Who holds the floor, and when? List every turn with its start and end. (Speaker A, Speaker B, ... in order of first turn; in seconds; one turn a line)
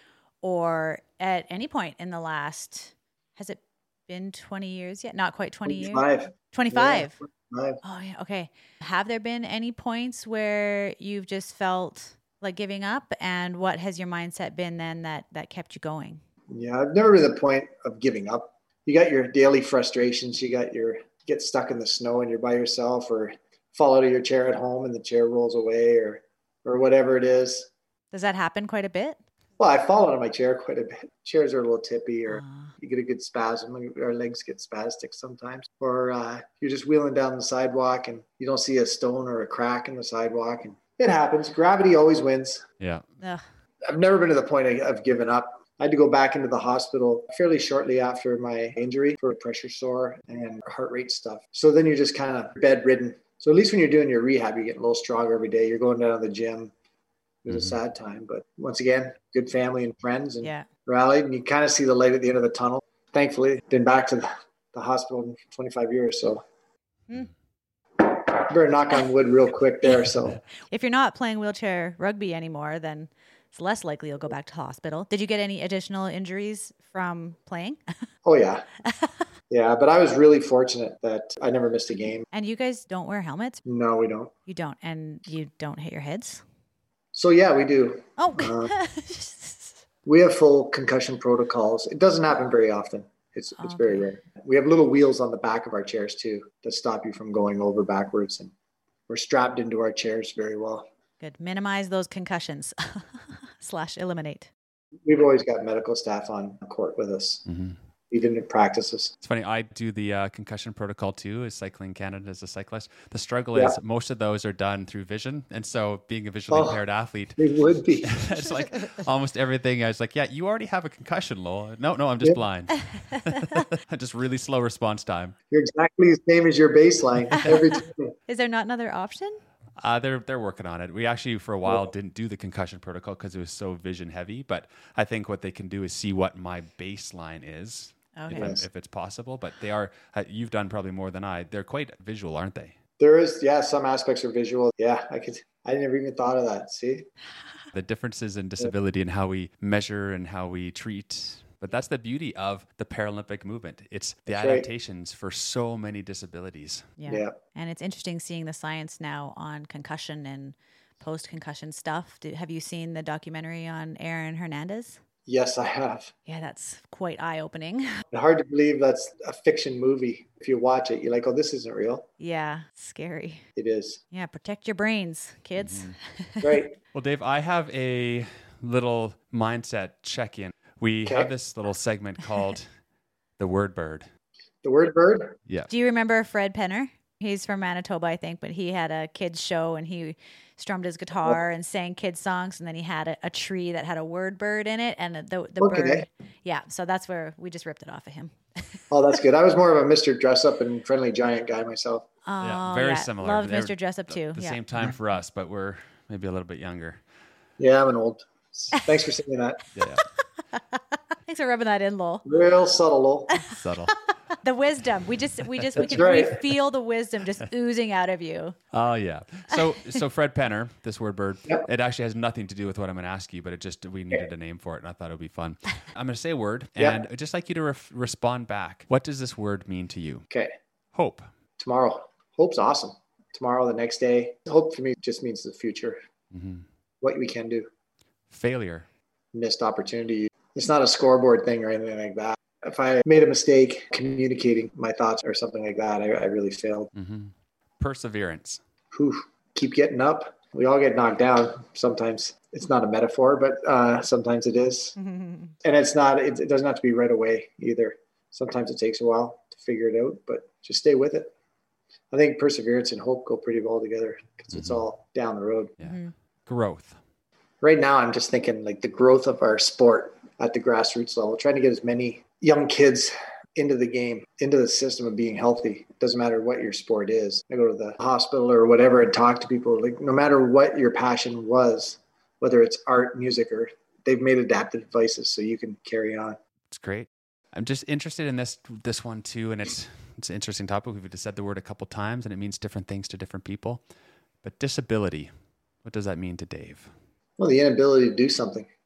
Speaker A: 0.4-7.1
Speaker B: 5.6-7.8
Speaker A: 7.8-16.2
Speaker B: 16.5-27.7
Speaker A: 28.1-29.2
Speaker B: 29.6-42.6
Speaker A: 32.3-32.7
Speaker C: 42.8-43.0
Speaker B: 43.8-56.7
Speaker B: 57.4-66.4
Speaker B: 68.0-70.4
Speaker A: 70.7-77.8
Speaker B: 78.2-78.7
Speaker A: 78.8-79.1
Speaker B: 79.5-82.2
Speaker A: 82.3-83.6
Speaker B: 83.6-84.3
Speaker A: 84.5-86.4
Speaker B: 87.1-88.7
Speaker A: 88.2-89.8
Speaker B: 90.0-98.5
Speaker A: 93.6-94.1
Speaker B: 99.1-100.9
Speaker A: 101.2-104.5
Speaker B: 105.0-107.5
Speaker C: 107.5-107.8
Speaker B: 108.1-109.1
Speaker C: 109.2-117.4
Speaker B: 116.5-116.8
Speaker B: 117.4-118.2
Speaker C: 118.0-125.3
Speaker B: 125.5-128.1
Speaker A: 128.3-129.4
Speaker C: 129.8-142.7
Speaker A: 138.2-138.6
Speaker B: 138.3-138.6
Speaker B: 143.0-147.1
Speaker C: 147.7-157.0
Speaker B: 154.3-154.7
Speaker A: 157.0-165.0
Speaker B: 157.1-157.4
Speaker B: 165.2-166.1
Speaker A: 166.3-167.9
Speaker B: 168.1-172.1
Speaker A: 172.2-173.4
Speaker B: 173.6-174.0
Speaker A: 174.1-176.6
Speaker C: 175.6-175.9
Speaker B: 176.4-176.7
Speaker C: 176.9-182.7
Speaker C: 183.4-184.1
Speaker B: 184.6-185.4
Speaker A: 185.7-198.8
Speaker B: 195.6-196.1
Speaker B: 198.9-202.0
Speaker A: 202.2-204.6
Speaker C: 202.4-207.0
Speaker B: 207.6-209.6
Speaker C: 209.8-210.0
Speaker A: 210.5-212.2
Speaker B: 212.2-213.4
Speaker A: 213.3-218.6
Speaker C: 213.4-213.9
Speaker B: 215.8-216.4
Speaker C: 218.7-230.2
Speaker C: 230.9-231.2
Speaker B: 231.6-236.0
Speaker C: 236.3-236.7
Speaker B: 237.0-237.7
Speaker C: 238.3-238.9
Speaker B: 239.3-246.9
Speaker C: 246.9-248.6
Speaker B: 248.9-255.0
Speaker A: 255.0-255.5
Speaker B: 255.6-261.3
Speaker B: 262.1-265.7
Speaker C: 264.5-264.8
Speaker C: 265.8-267.0
Speaker A: 265.8-266.1
Speaker B: 267.6-286.4
Speaker C: 286.7-293.8
Speaker C: 294.4-295.3
Speaker C: 295.8-296.9
Speaker B: 297.4-298.7